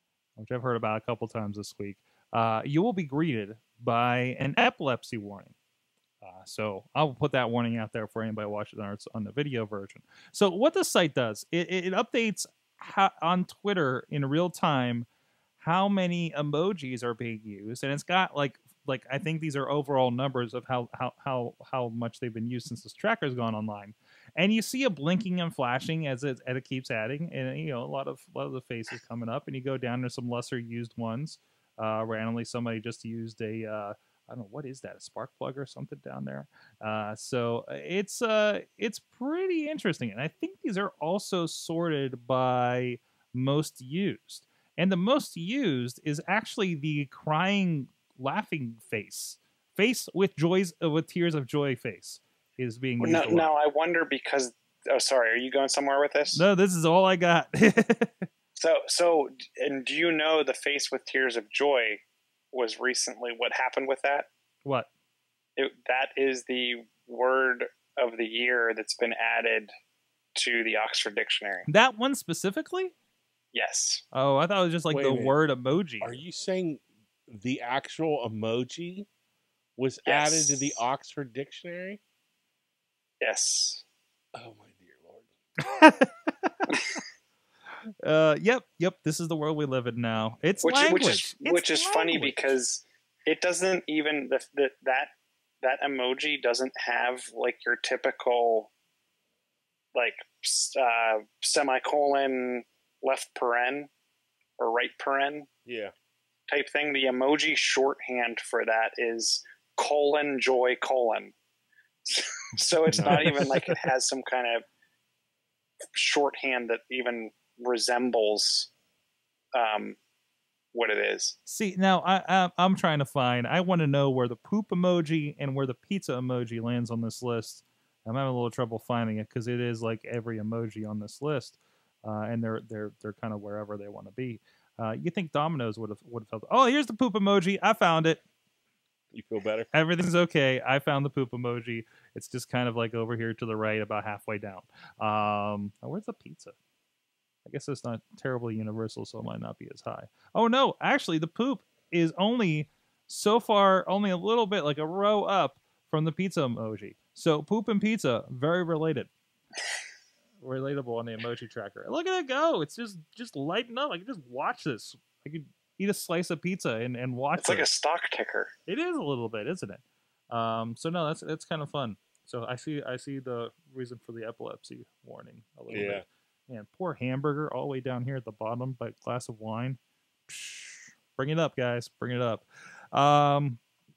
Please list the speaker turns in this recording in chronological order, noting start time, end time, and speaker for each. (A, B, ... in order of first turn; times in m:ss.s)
0:00.4-0:05.6 A
0:06.2-0:15.1 A
0:15.6-0:53.5 A
0:53.0-0:56.5 B
0:56.3-0:58.3 A
0:58.6-1:04.3 B
1:05.6-1:09.7 B
1:10.4-1:11.7 B
1:11.7-1:12.9 A
1:13.5-1:14.0 B
1:14.1-1:16.2 A
1:14.9-1:15.3 C
1:16.0-1:19.1 C
1:19.8-1:22.0 C
1:20.1-1:20.8 B
1:23.2-1:23.8 B
1:24.4-1:25.3 C
1:25.6-1:26.8 A
1:28.0-1:32.6 A
1:30.6-1:35.1 B
1:35.6-1:38.7 B
1:39.9-1:43.9 B
1:44.6-1:45.5 B
1:45.7-1:45.9 C
1:46.5-1:51.3 B
1:52.1-1:54.6 B
1:52.9-1:53.4 C
1:52.9-1:53.6 A
1:56.0-1:58.7 B
1:59.5-2:00.0 B
2:00.7-2:01.4 B
2:01.5-2:18.2 A
2:19.1-2:19.7 C
2:19.7-2:26.6 A
2:27.4-2:39.1 A
2:40.4-2:47.7 A
2:47.4-2:48.5 B
2:48.7-3:03.6 A
2:55.7-2:56.0 C